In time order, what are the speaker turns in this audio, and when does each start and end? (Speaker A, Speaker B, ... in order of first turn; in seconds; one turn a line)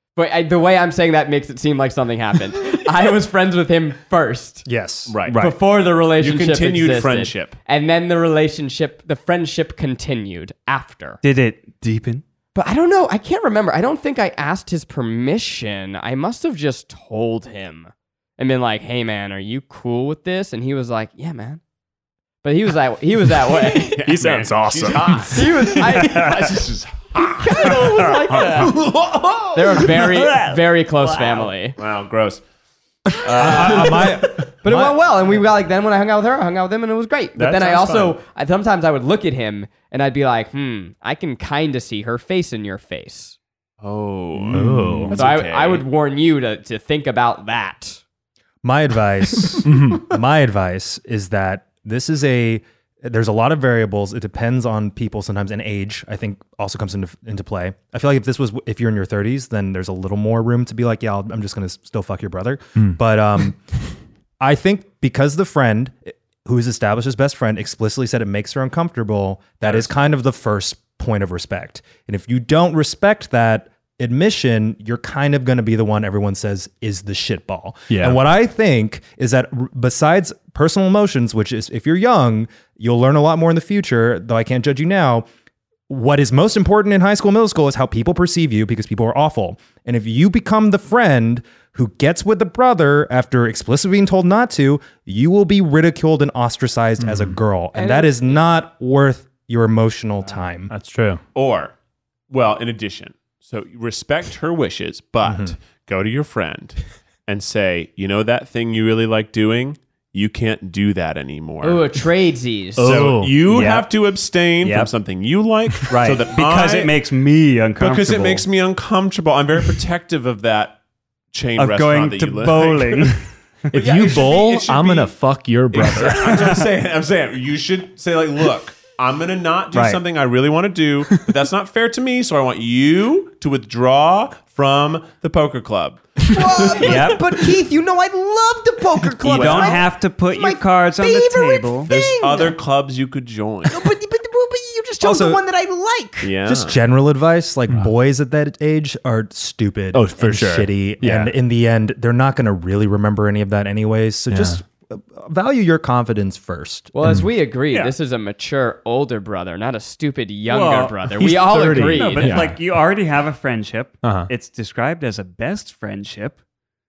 Speaker A: 0.1-4.7
Speaker B: 4.6-5.2
Speaker C: 5.1-5.5
Speaker D: 5.3-5.5
Speaker A: 5.3-11.2
Speaker C: 6.2-7.5
Speaker D: 11.2-12.2
Speaker A: 12.5-21.6
Speaker A: 22.4-24.1
Speaker E: 23.9-25.8
Speaker C: 23.9-29.6
Speaker A: 25.3-26.6
Speaker D: 25.6-26.5
Speaker A: 27.2-28.7
Speaker D: 27.7-28.0
Speaker A: 29.5-31.8
Speaker D: 29.7-31.5
Speaker C: 31.8-32.4
Speaker C: 33.2-34.1
Speaker A: 33.3-43.4
Speaker B: 33.3-35.0
Speaker C: 37.4-38.1
Speaker C: 43.8-45.8
Speaker E: 44.5-45.1
Speaker B: 44.5-45.0
Speaker A: 45.1-48.0
Speaker B: 48.6-63.6
Speaker E: 49.6-50.1
Speaker B: 64.4-85.2
Speaker E: 77.9-78.2
Speaker B: 85.9-100.7
Speaker E: 97.0-97.4
Speaker A: 97.7-98.3
Speaker E: 100.7-101.2
Speaker C: 101.3-101.7
Speaker C: 102.3-111.8
Speaker B: 105.2-105.5
Speaker A: 111.6-113.0
Speaker E: 112.8-113.4
Speaker C: 112.8-116.9
Speaker D: 113.5-113.9
Speaker D: 114.6-114.9
Speaker D: 115.9-118.4
Speaker C: 117.8-120.8
Speaker C: 121.3-123.2
Speaker D: 121.6-123.7
Speaker E: 123.7-126.3
Speaker C: 123.7-125.1
Speaker C: 125.7-137.1
Speaker D: 126.2-126.7
Speaker D: 129.7-130.0
Speaker A: 136.3-142.6
Speaker D: 136.7-137.2
Speaker C: 139.2-139.8
Speaker D: 139.2-141.9
Speaker C: 141.9-143.9
Speaker A: 143.7-146.3
Speaker B: 145.0-145.4
Speaker C: 146.2-146.8
Speaker B: 146.4-156.9
Speaker E: 149.9-151.3
Speaker E: 154.3-154.6
Speaker A: 156.9-162.5
Speaker D: 160.5-161.0
Speaker E: 161.2-162.6
Speaker D: 161.8-166.4
Speaker E: 164.0-164.3